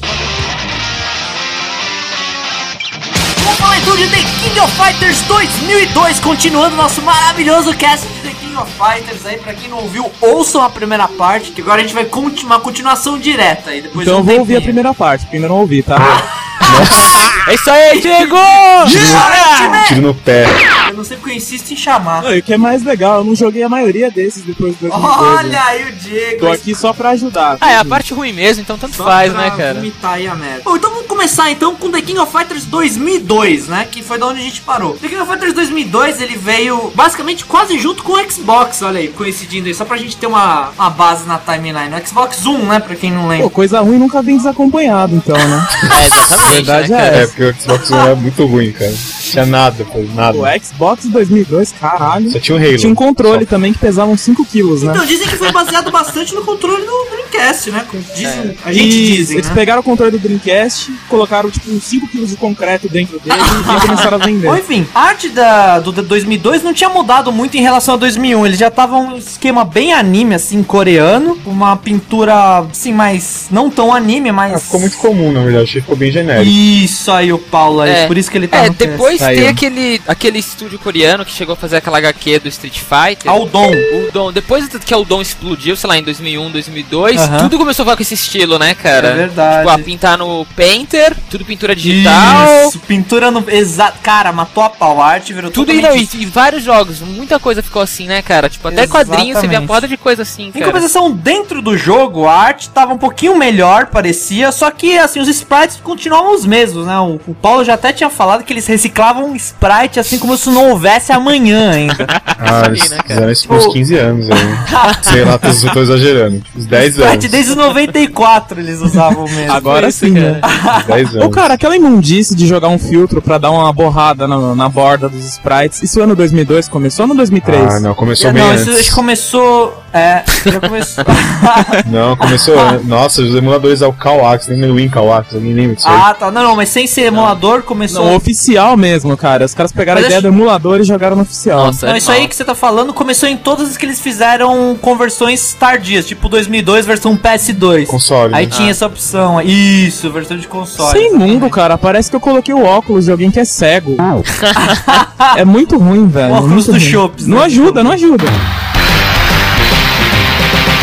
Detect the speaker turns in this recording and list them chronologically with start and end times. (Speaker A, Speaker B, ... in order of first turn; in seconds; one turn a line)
Speaker A: 3.4-14.8
Speaker B: 13.9-16.1
Speaker C: 16.6-17.3
Speaker D: 17.4-19.4
Speaker A: 17.9-20.0
Speaker C: 18.8-20.6
Speaker A: 20.8-22.3
Speaker B: 22.2-25.6
Speaker A: 24.9-26.6
Speaker B: 26.4-28.0
Speaker D: 27.6-29.9
Speaker A: 28.9-43.5
Speaker B: 43.4-47.3
Speaker D: 45.9-47.3
Speaker C: 47.1-50.5
Speaker B: 50.3-55.1
Speaker C: 52.3-53.5
Speaker A: 54.8-59.6
Speaker D: 58.2-58.6
Speaker B: 58.7-64.6
Speaker A: 63.3-75.1
Speaker C: 74.5-76.6
Speaker A: 76.4-79.1
Speaker D: 77.8-92.7
Speaker B: 79.2-79.6
Speaker A: 83.2-83.9
Speaker A: 87.1-87.5
Speaker A: 89.0-89.9
Speaker A: 91.8-96.1
Speaker D: 95.5-100.8
Speaker A: 98.7-99.8
Speaker A: 100.5-112.1
Speaker D: 112.0-113.3
Speaker C: 112.4-117.4
Speaker A: 113.5-113.8
Speaker A: 114.6-115.1
Speaker D: 114.9-115.1
Speaker A: 116.7-119.7
Speaker B: 119.5-120.4
Speaker D: 119.5-120.5
Speaker A: 120.4-120.9
Speaker C: 120.7-121.5
Speaker B: 121.2-127.8
Speaker C: 127.4-129.0
Speaker A: 128.2-131.8
Speaker C: 131.8-136.1
Speaker A: 135.8-138.2
Speaker D: 137.1-137.4
Speaker B: 137.9-141.8
Speaker A: 139.9-140.3
Speaker D: 141.5-142.3
Speaker A: 141.8-151.6
Speaker C: 147.9-148.5
Speaker D: 148.5-148.8
Speaker B: 150.8-154.1
Speaker A: 154.6-155.4
Speaker B: 155.3-158.3
Speaker A: 156.2-158.0